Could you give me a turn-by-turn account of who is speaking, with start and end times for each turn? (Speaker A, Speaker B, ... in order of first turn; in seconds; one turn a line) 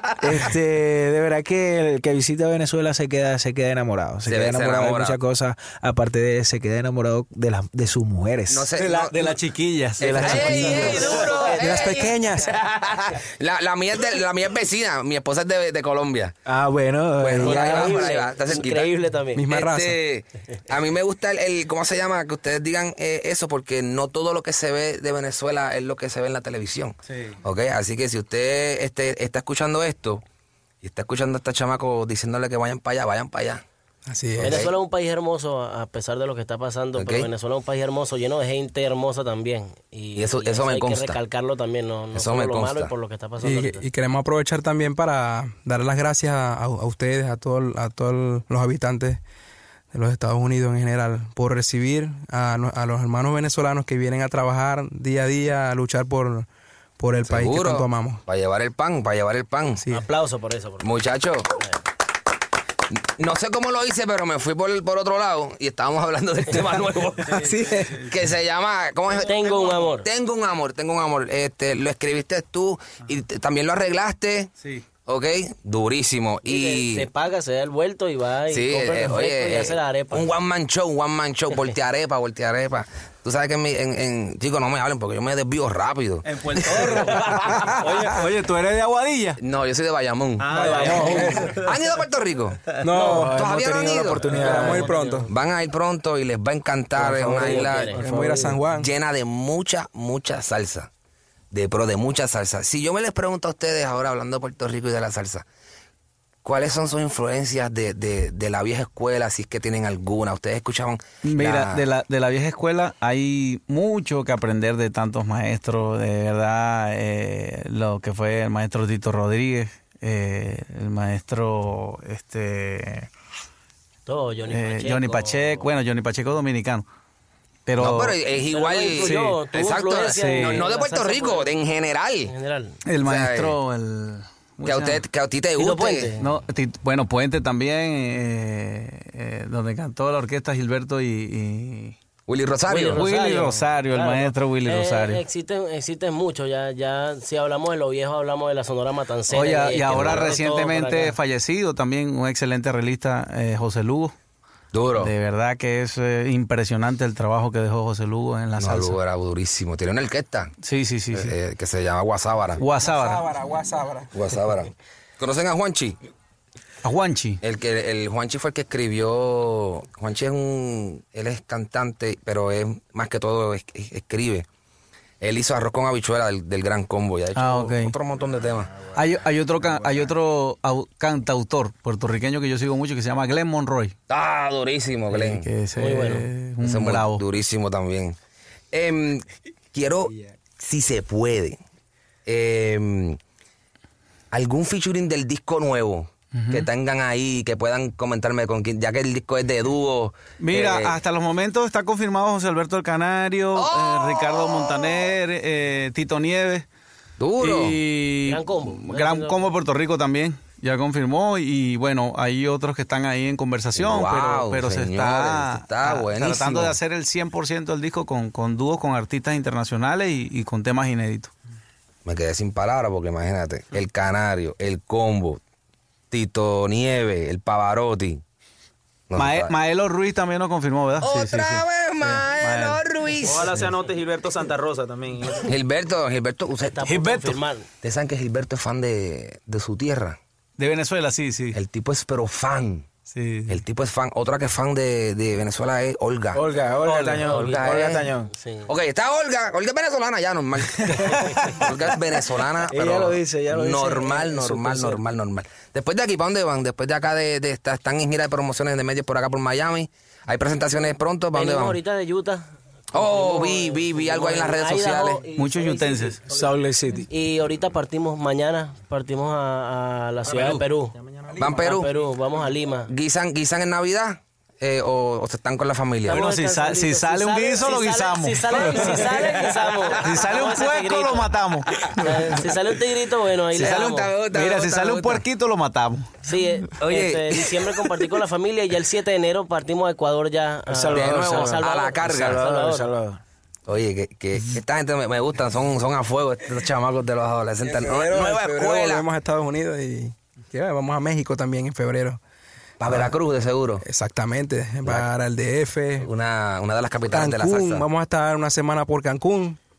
Speaker A: 0.2-8.8
Speaker B: 4.2-5.2
Speaker B: 8.5-9.2
Speaker C: 8.8-11.4
Speaker A: 10.0-11.1
Speaker B: 10.1-16.3
Speaker D: 10.4-12.0
Speaker E: 11.6-12.5
Speaker A: 16.4-18.1
Speaker B: 17.2-18.9
Speaker D: 17.4-19.4
Speaker E: 19.4-20.0
Speaker B: 19.5-30.2
Speaker B: 30.8-33.6
Speaker E: 34.1-34.6
Speaker B: 34.3-34.7
Speaker D: 34.4-43.8
Speaker B: 37.0-37.3
Speaker B: 40.1-41.2
Speaker B: 42.1-42.9
Speaker E: 43.4-49.2
Speaker E: 49.9-56.5
Speaker E: 57.0-58.2
Speaker B: 57.2-59.8
Speaker D: 59.9-60.9
Speaker B: 60.8-61.6
Speaker B: 62.9-74.5
Speaker C: 67.4-68.0
Speaker E: 67.4-68.0
Speaker D: 69.2-70.1
Speaker C: 69.2-69.9
Speaker B: 75.0-77.1
Speaker D: 76.4-80.3
Speaker B: 78.5-86.2
Speaker C: 86.2-89.4
Speaker B: 89.4-94.3
Speaker C: 90.4-91.7
Speaker E: 90.6-91.5
Speaker F: 90.7-91.5
Speaker E: 92.8-95.3
Speaker A: 93.0-94.9
Speaker D: 94.4-95.3
Speaker C: 94.5-94.7
Speaker B: 95.3-98.0
Speaker D: 97.1-98.5
Speaker C: 97.2-97.6
Speaker E: 97.9-98.9
Speaker B: 98.7-100.9
Speaker B: 101.5-105.4
Speaker B: 106.4-111.8
Speaker C: 111.2-123.1
Speaker D: 124.0-125.7
Speaker C: 124.5-126.8
Speaker C: 127.7-128.2
Speaker B: 127.8-132.3
Speaker D: 128.5-131.5
Speaker C: 128.9-129.3
Speaker C: 130.2-130.7
Speaker D: 132.3-132.8
Speaker C: 132.8-135.0
Speaker B: 133.0-133.6
Speaker B: 134.6-136.1
Speaker D: 135.6-136.2
Speaker C: 136.2-141.9
Speaker B: 142.3-143.0
Speaker D: 142.7-151.1
Speaker C: 142.9-145.2
Speaker C: 149.3-154.1
Speaker B: 149.9-150.4
Speaker B: 154.7-155.1
Speaker C: 155.0-159.0
Speaker B: 158.6-160.5
Speaker C: 160.6-161.3
Speaker B: 161.1-162.6
Speaker C: 162.6-163.2
Speaker E: 162.8-164.1
Speaker B: 164.1-166.0
Speaker C: 166.8-167.4
Speaker B: 167.4-174.4
Speaker B: 175.2-178.8
Speaker C: 177.3-177.9
Speaker C: 178.9-183.9
Speaker B: 184.1-185.5
Speaker C: 185.1-187.2
Speaker D: 185.8-186.3
Speaker B: 186.6-188.2
Speaker B: 188.7-191.6
Speaker B: 192.2-193.2
Speaker B: 194.3-201.0
Speaker C: 196.3-196.7
Speaker C: 200.4-206.7
Speaker B: 203.5-205.1
Speaker B: 207.2-207.8
Speaker C: 207.4-221.3
Speaker D: 208.2-209.5
Speaker B: 213.8-216.8
Speaker B: 222.0-225.4
Speaker B: 226.1-228.2
Speaker B: 229.1-229.5
Speaker C: 229.1-232.8
Speaker B: 231.0-233.5
Speaker F: 233.2-235.5
Speaker B: 235.4-236.8
Speaker D: 236.7-237.7
Speaker C: 236.8-237.4
Speaker B: 237.8-240.2
Speaker C: 240.6-241.6
Speaker B: 241.5-242.9
Speaker C: 243.1-243.6
Speaker B: 243.5-246.4
Speaker A: 246.3-248.3
Speaker D: 247.0-248.7
Speaker B: 247.1-248.1
Speaker B: 248.7-261.8
Speaker A: 252.7-255.0
Speaker D: 261.3-266.6
Speaker B: 262.9-265.2
Speaker C: 265.4-266.2
Speaker A: 266.3-267.1
Speaker D: 267.1-270.9
Speaker F: 271.1-271.6
Speaker B: 271.4-271.9
Speaker D: 271.5-272.9
Speaker B: 272.9-276.2
Speaker D: 276.1-281.3
Speaker C: 276.1-279.3
Speaker C: 280.0-281.9
Speaker D: 281.9-284.1
Speaker B: 283.5-285.2
Speaker C: 283.6-286.1
Speaker D: 286.2-292.9
Speaker B: 286.8-288.0
Speaker A: 290.7-293.2
Speaker B: 290.9-292.4
Speaker B: 293.7-299.1
Speaker E: 297.6-302.2
Speaker B: 302.8-303.8
Speaker E: 302.9-303.1
Speaker E: 303.8-306.1
Speaker B: 304.8-305.1
Speaker B: 306.0-307.9
Speaker E: 307.1-309.6